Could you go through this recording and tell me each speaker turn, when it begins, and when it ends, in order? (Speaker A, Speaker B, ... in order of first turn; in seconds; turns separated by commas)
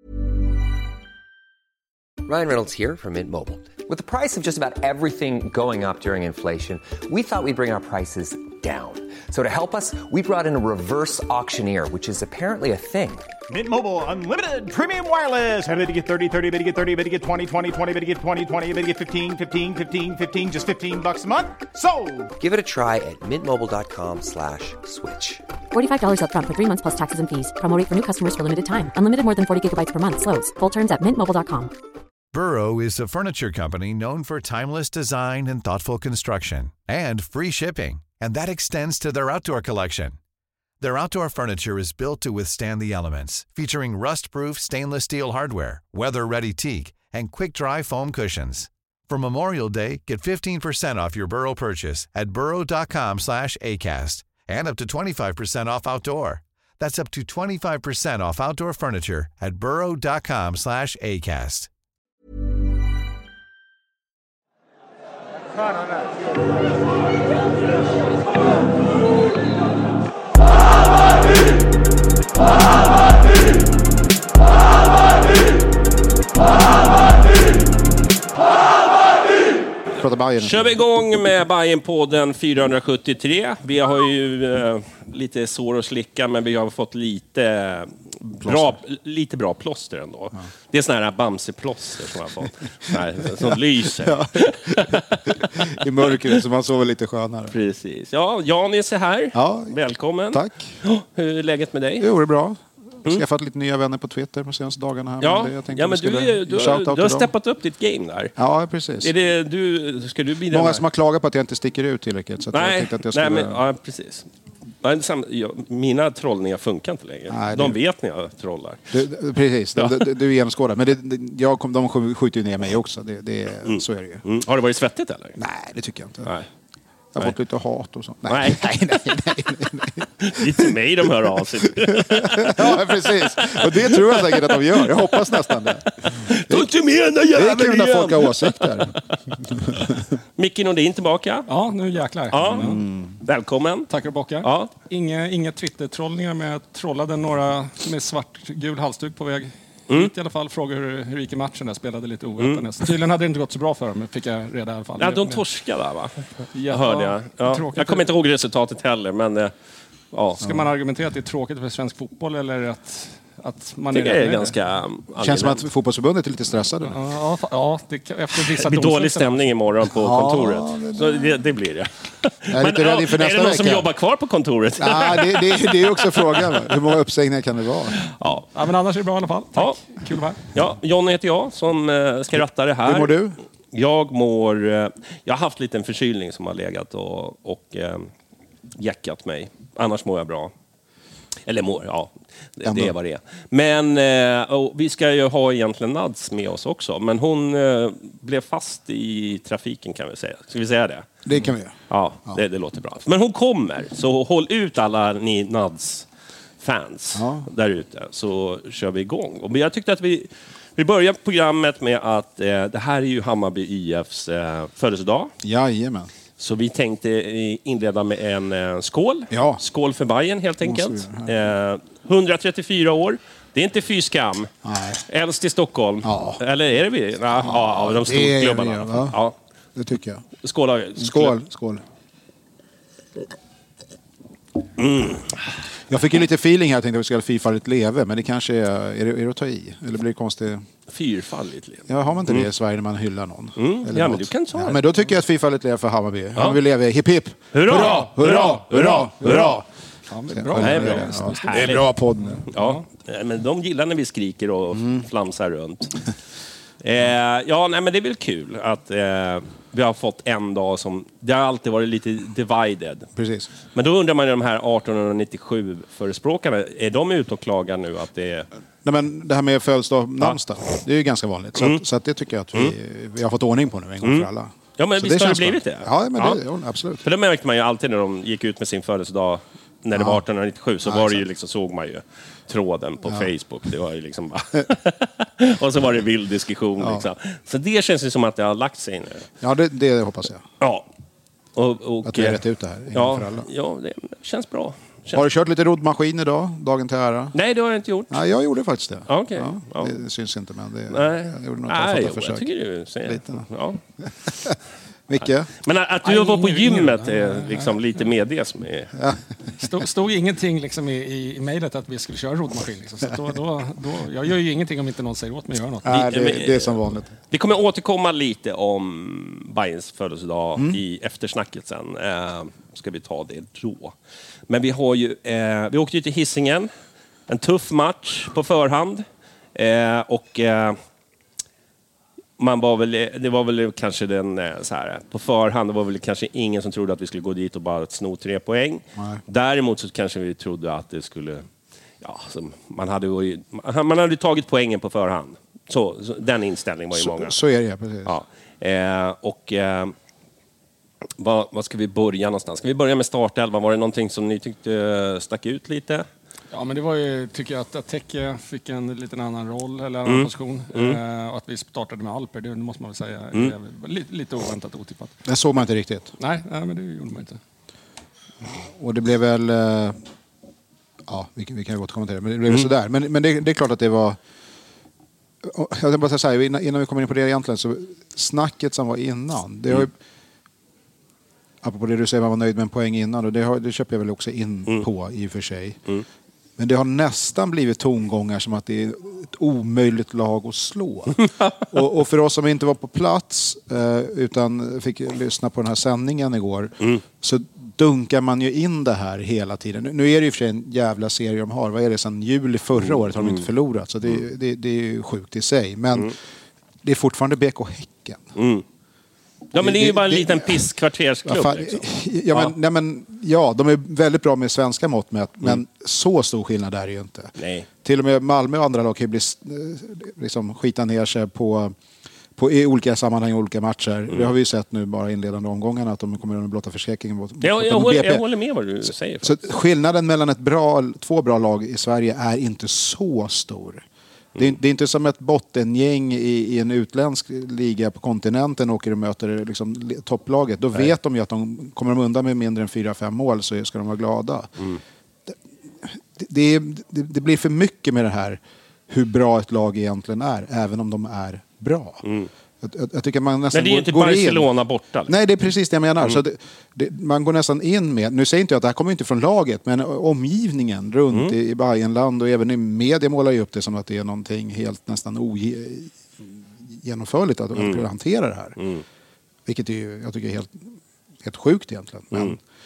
Speaker A: 2.2-13.3, Speaker B: 13.5-22.3, Speaker A: 22.4-25.4, Speaker C: 25.7-31.7, Speaker D: 32.3-40.2, Speaker D: 40.8-61.7, Speaker E: 80.0-80.7, Speaker F: 80.4-95.4, Speaker E: 88.4-88.8, Speaker E: 93.5-97.5, Speaker F: 97.5-102.1, Speaker E: 99.3-99.7, Speaker E: 100.3-100.8, Speaker E: 102.0-107.3, Speaker F: 105.2-108.3, Speaker E: 108.4-109.1, Speaker F: 109.0-110.8, Speaker E: 110.5-113.6, Speaker F: 112.5-114.2, Speaker F: 114.8-118.8, Speaker E: 117.3-117.8, Speaker E: 118.9-124.2, Speaker F: 119.8-120.1, Speaker F: 123.6-125.4, Speaker E: 125.4-126.3, Speaker E: 127.1-131.1, Speaker F: 128.3-128.8, Speaker F: 130.2-135.5, Speaker E: 131.8-136.7, Speaker F: 136.0-138.9, Speaker E: 137.3-140.0, Speaker F: 140.4-141.5, Speaker G: 141.5-142.8, Speaker F: 142.3-142.7, Speaker E: 142.5-143.2, Speaker F: 143.2-143.9, Speaker G: 143.9-155.4, Speaker F: 144.4-144.7, Speaker F: 155.0-159.5, Speaker G: 156.5-158.1, Speaker F: 160.1-160.4, Speaker G: 160.4-164.5, Speaker F: 163.9-165.6, Speaker E: 165.2-167.0, Speaker G: 166.8-169.4, Speaker F: 168.5-176.6, Speaker E: 169.9-171.3, Speaker E: 172.5-173.9, Speaker E: 174.8-178.0, Speaker F: 178.1-178.5, Speaker G: 178.5-180.4, Speaker F: 180.5-183.2, Speaker E: 182.8-183.4, Speaker F: 183.7-188.1, Speaker F: 188.8-190.5, Speaker F: 191.4-201.1, Speaker E: 192.6-192.9, Speaker E: 201.2-201.7, Speaker F: 201.9-206.1, Speaker F: 206.6-215.3, Speaker E: 207.1-207.5, Speaker E: 215.4-216.1, Speaker F: 216.4-224.5, Speaker E: 219.3-219.6, Speaker E: 220.6-221.3, Speaker E: 224.6-225.0, Speaker F: 225.1-229.3, Speaker E: 226.0-226.4, Speaker E: 227.3-229.2, Speaker E: 229.7-230.2, Speaker F: 230.4-231.3, Speaker E: 231.0-231.8, Speaker F: 234.8-235.4, Speaker E: 235.9-240.6, Speaker F: 240.9-242.4, Speaker E: 241.9-249.6, Speaker F: 243.6-244.8, Speaker F: 247.5-249.6, Speaker G: 247.8-248.5, Speaker G: 250.1-251.7, Speaker E: 250.3-252.4, Speaker F: 250.6-251.9, Speaker F: 252.5-256.0, Speaker F: 256.8-263.1, Speaker E: 263.1-263.5, Speaker F: 263.7-268.5, Speaker E: 268.8-277.1, Speaker F: 271.6-271.8, Speaker F: 274.0-276.4, Speaker F: 277.0-289.3, Speaker E: 279.9-280.2, Speaker E: 280.8-281.2, Speaker E: 286.8-287.1, Speaker E: 289.4-290.4, Speaker F: 290.6-290.9, Speaker F: 291.6-292.4, Speaker E: 292.0-293.5, Speaker F: 292.9-295.2, Speaker E: 295.1-297.3, Speaker F: 297.3-298.2, Speaker E: 298.1-302.5, Speaker F: 299.1-300.0, Speaker F: 300.9-303.8, Speaker E: 303.0-303.4, Speaker E: 304.3-304.5, Speaker E: 305.1-305.5, Speaker F: 305.6-308.9, Speaker G: 306.0-307.8, Speaker E: 309.0-309.2, Speaker G: 309.6-315.9, Speaker E: 315.8-317.1, Speaker F: 315.9-323.9, Speaker F: 324.5-326.7, Speaker F: 327.3-330.8, Speaker F: 332.4-341.4, Speaker F: 342.0-347.3, Speaker E: 346.9-348.1, Speaker F: 348.0-349.9, Speaker F: 351.2-356.0, Speaker G: 356.5-365.1, Speaker F: 360.1-361.0, Speaker E: 365.2-366.1, Speaker G: 366.2-367.4, Speaker E: 368.6-370.0, Speaker E: 371.1-374.2, Speaker E: 375.4-379.9, Speaker E: 381.6-385.8, Speaker E: 386.6-406.1, Speaker F: 402.9-403.4, Speaker E: 406.8-408.2, Speaker F: 408.4-408.6, Speaker F: 409.5-412.5, Speaker E: 409.5-410.6, Speaker E: 411.2-421.7, Speaker F: 417.4-417.7, Speaker E: 422.4-428.2, Speaker F: 427.4-429.4, Speaker E: 429.2-433.8, Speaker E: 434.4-444.5, Speaker E: 445.3-452.0, Speaker F: 452.0-452.3, Speaker E: 452.6-454.4, Speaker F: 453.5-455.1, Speaker E: 455.1-468.6, Speaker F: 467.6-467.8, Speaker F: 468.6-468.8, Speaker E: 469.4-470.7, Speaker E: 471.2-472.4